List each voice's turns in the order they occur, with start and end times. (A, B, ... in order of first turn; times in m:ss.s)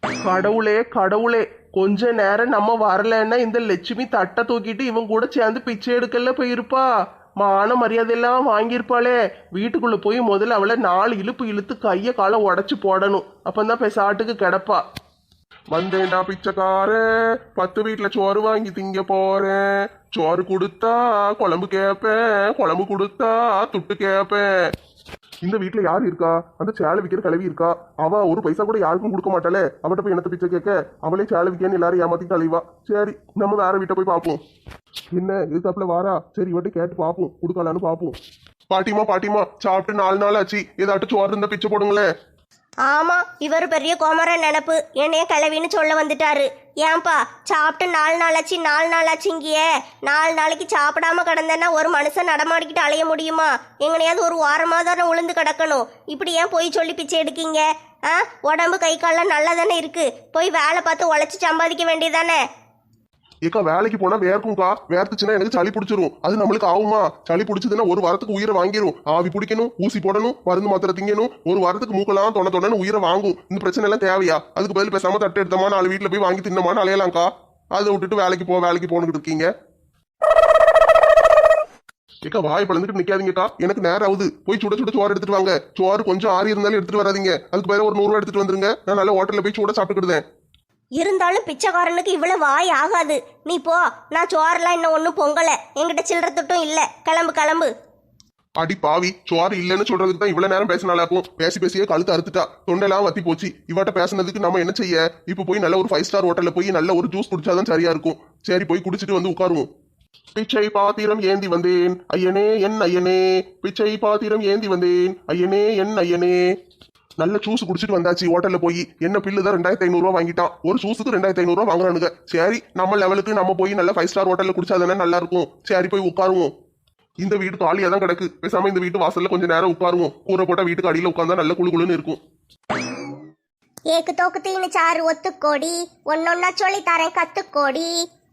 0:00.2-0:06.9 A
0:07.4-0:14.8 A
0:15.7-0:17.0 A
0:17.5-0:24.5 A
0:25.4-0:34.4 A
0:35.1-0:38.2 A
0:38.7-0:42.1 A
0:42.9-1:02.4 B
1:03.4-1:19.5 A
1:22.2-1:30.2 A
1:31.0-1:37.7 B
1:38.6-1:49.7 A
1:50.4-1:56.4 A
1:57.2-2:06.5 A
2:07.2-2:12.2 A
2:13.9-2:17.9 C